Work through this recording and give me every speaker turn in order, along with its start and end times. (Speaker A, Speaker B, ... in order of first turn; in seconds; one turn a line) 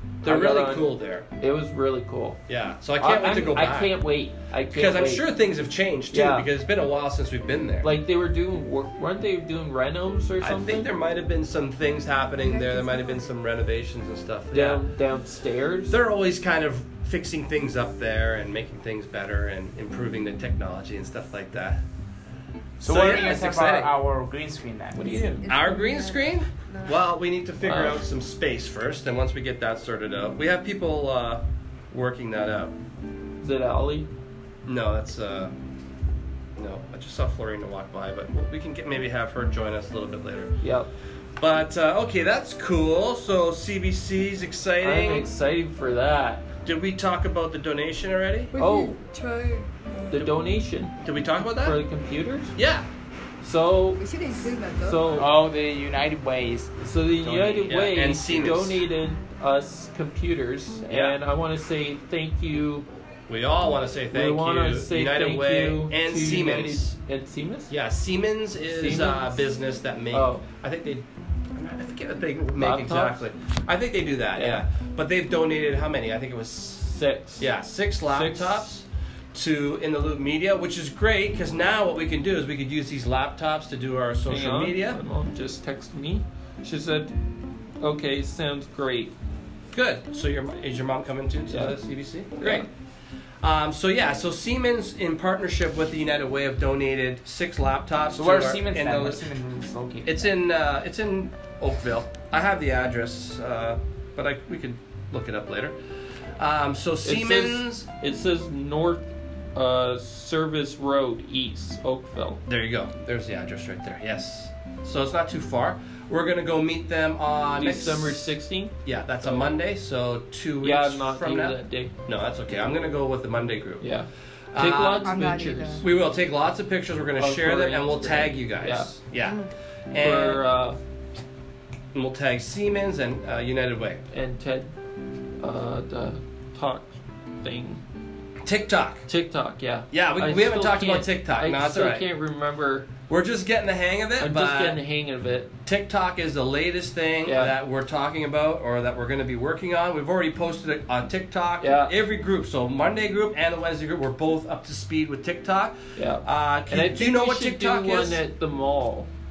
Speaker A: 0.2-2.4
Speaker B: 0.2-1.3
Speaker B: 2.5-4.0
Speaker A: 3.0-5.3
Speaker B: 4.7-7.9
Speaker A: 6.1-6.5
Speaker A: 7.8-10.9
Speaker B: 10.4-14.8
Speaker C: 12.4-13.3
Speaker A: 14.5-16.0
Speaker B: 15.9-21.8
Speaker B: 22.8-23.9
Speaker D: 22.8-25.2
Speaker A: 24.9-25.5
Speaker C: 25.0-27.0
Speaker B: 25.5-32.7
Speaker A: 27.6-28.0
Speaker A: 33.4-34.1
Speaker B: 34.7-35.5
Speaker B: 36.6-40.5
Speaker A: 40.6-40.9
Speaker B: 41.4-45.3
Speaker A: 44.8-46.5
Speaker B: 46.6-48.5
Speaker C: 48.5-50.1
Speaker A: 48.6-49.0
Speaker A: 50.1-52.5
Speaker B: 51.0-51.8
Speaker B: 52.6-52.9
Speaker A: 53.4-54.0
Speaker C: 54.0-55.3
Speaker A: 54.8-55.3
Speaker D: 55.2-57.8
Speaker A: 56.8-62.9
Speaker B: 57.7-58.8
Speaker B: 60.9-61.2
Speaker B: 63.3-67.0
Speaker A: 64.1-67.7
Speaker B: 67.7-85.0
Speaker A: 68.7-69.4
Speaker A: 70.1-70.5
Speaker A: 72.6-73.2
Speaker A: 74.4-74.6
Speaker A: 76.9-77.5
Speaker A: 78.1-78.7
Speaker A: 84.3-87.1
Speaker A: 87.8-89.1
Speaker B: 89.7-92.7
Speaker A: 91.5-91.8
Speaker A: 92.4-92.7
Speaker B: 93.4-99.3
Speaker D: 98.2-100.3
Speaker B: 100.0-105.8
Speaker B: 106.4-107.9
Speaker A: 107.0-109.0
Speaker A: 109.5-112.4
Speaker B: 112.5-118.3
Speaker A: 117.6-119.5
Speaker B: 118.8-123.9
Speaker A: 120.6-121.9
Speaker A: 123.8-125.9
Speaker B: 124.5-125.1
Speaker C: 125.0-125.8
Speaker B: 125.8-130.4
Speaker A: 127.2-128.9
Speaker C: 129.2-129.5
Speaker A: 130.0-130.8
Speaker B: 131.9-134.0
Speaker A: 134.1-134.7
Speaker A: 135.4-137.8
Speaker B: 138.4-139.1
Speaker A: 139.1-142.9
Speaker B: 139.9-142.1
Speaker B: 143.1-144.8
Speaker A: 144.2-145.5
Speaker B: 145.7-158.2
Speaker A: 147.2-147.6
Speaker A: 151.6-151.9
Speaker A: 156.0-159.1